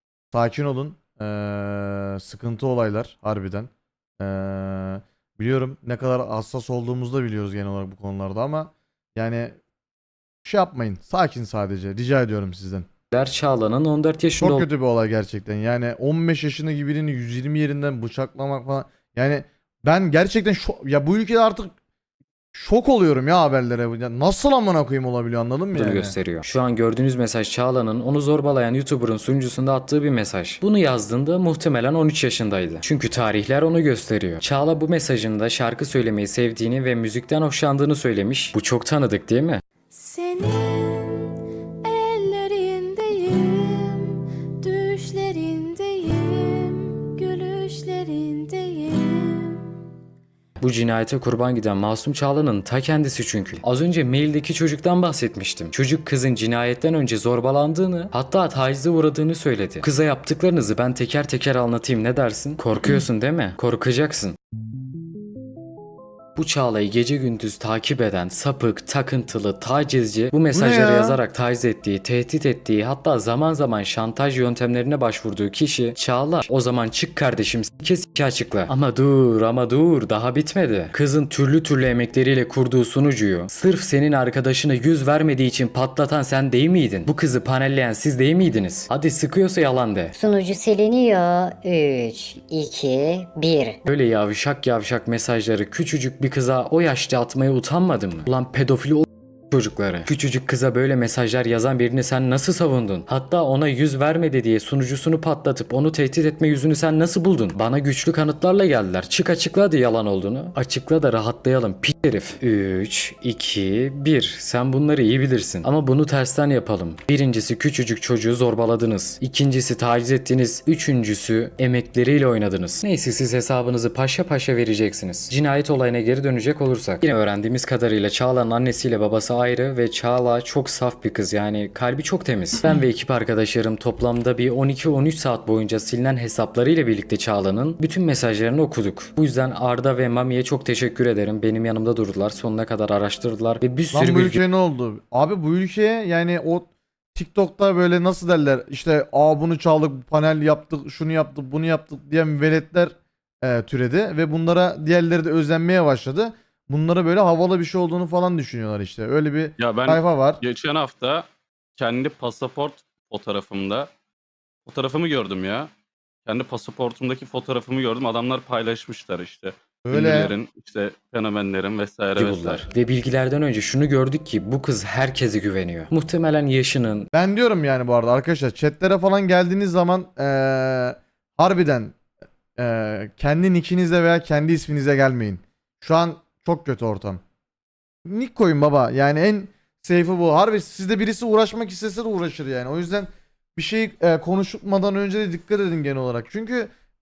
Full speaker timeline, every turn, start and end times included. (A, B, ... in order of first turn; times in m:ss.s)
0:00.3-0:09.6 A
0:10.4-0:12.9 A
0:13.1-0:14.7 B
0:14.4-0:21.7 A
0:22.5-0:26.2 A
0:25.7-0:39.6 B
0:39.9-0:49.6 C
0:50.6-1:04.4 B
1:06.4-1:30.2 B
1:10.5-1:11.2 A
1:30.1-1:33.8 D
1:33.8-2:24.4 B
2:23.9-2:40.4 A
2:39.6-2:41.2 E
2:41.8-2:43.9 E
2:44.6-2:45.7 E
2:46.2-2:52.7 E
2:49.8-2:50.3 A
2:52.2-2:57.1 B
2:57.1-3:02.0 A
3:02.6-3:07.2 A
3:08.0-3:16.7 A